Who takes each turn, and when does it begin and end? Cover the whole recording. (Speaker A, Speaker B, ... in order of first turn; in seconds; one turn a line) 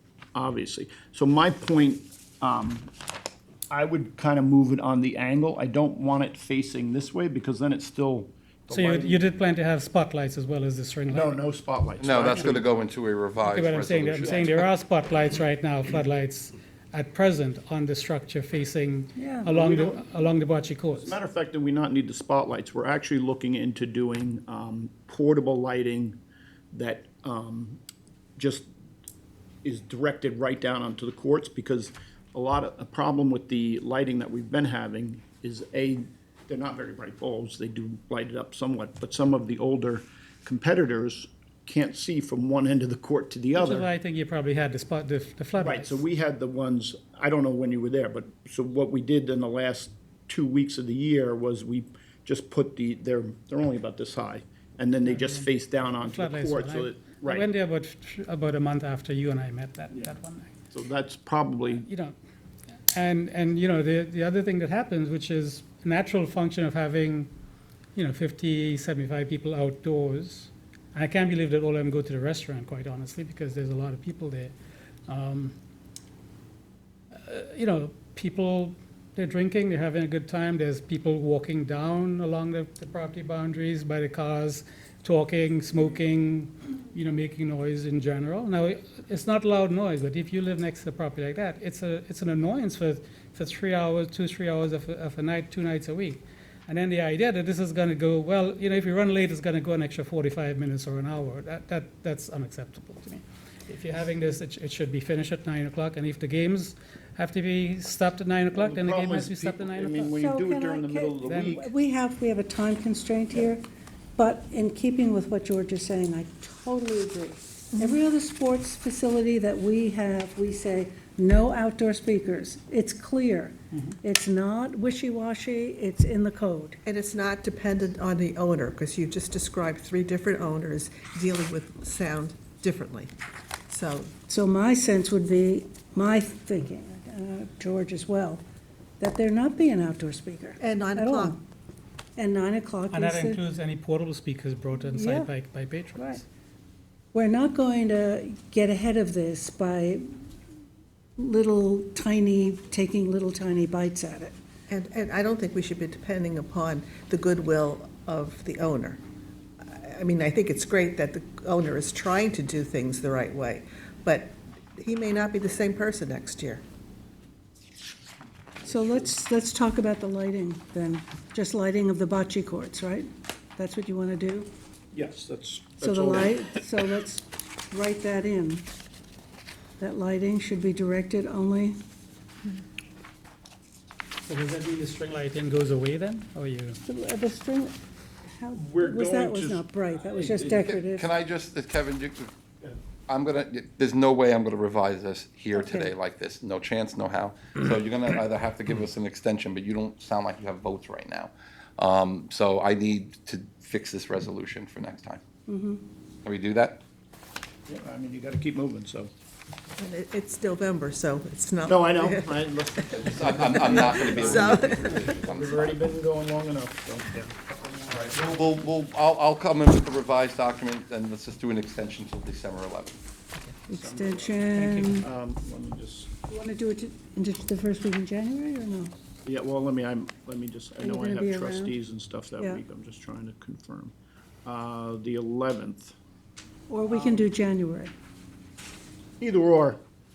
Speaker A: 0.3-2.9
Speaker A: 3.7-9.2
Speaker B: 8.7-11.3
Speaker A: 11.1-12.7
Speaker C: 12.0-14.5
Speaker B: 13.4-21.1
Speaker A: 14.2-14.6
Speaker D: 19.1-19.5
Speaker A: 19.5-20.1
Speaker A: 21.0-26.2
Speaker A: 26.7-27.8
Speaker A: 28.4-28.7
Speaker A: 29.6-43.9
Speaker B: 43.5-46.0
Speaker A: 45.6-57.5
Speaker B: 55.0-60.5
Speaker A: 60.7-61.8
Speaker B: 61.8-62.1
Speaker B: 62.9-67.3
Speaker B: 67.9-74.5
Speaker B: 75.1-75.5
Speaker B: 77.2-110.1
Speaker A: 108.5-111.7
Speaker D: 110.1-113.6
Speaker B: 111.2-111.5
Speaker D: 114.2-126.8
Speaker E: 126.8-133.1
Speaker E: 133.7-134.1
Speaker D: 134.3-138.4
Speaker D: 139.0-141.4
Speaker E: 140.6-141.3
Speaker D: 142.2-143.4
Speaker B: 142.9-146.2
Speaker D: 144.8-145.3
Speaker D: 145.9-146.2
Speaker D: 147.1-150.0
Speaker D: 151.2-154.3
Speaker E: 154.7-159.0
Speaker E: 159.6-166.6
Speaker D: 168.6-174.5
Speaker A: 168.6-169.1
Speaker A: 174.9-176.6
Speaker D: 175.8-178.7
Speaker D: 179.8-181.7
Speaker B: 184.2-186.8
Speaker D: 186.8-191.1
Speaker A: 188.5-190.8
Speaker C: 190.5-192.3
Speaker C: 193.1-205.2
Speaker D: 195.5-195.9
Speaker D: 205.5-205.8
Speaker C: 206.2-206.8
Speaker A: 207.7-209.1
Speaker E: 209.8-212.5
Speaker A: 211.7-217.3
Speaker C: 212.9-215.8
Speaker E: 213.5-215.2
Speaker C: 217.5-223.0
Speaker D: 223.7-225.1
Speaker A: 223.7-226.1
Speaker B: 224.5-225.0
Speaker D: 226.3-228.9
Speaker A: 229.2-235.9
Speaker D: 230.8-231.8
Speaker D: 232.4-232.6
Speaker D: 236.7-237.9
Speaker A: 236.9-237.3
Speaker A: 239.2-239.8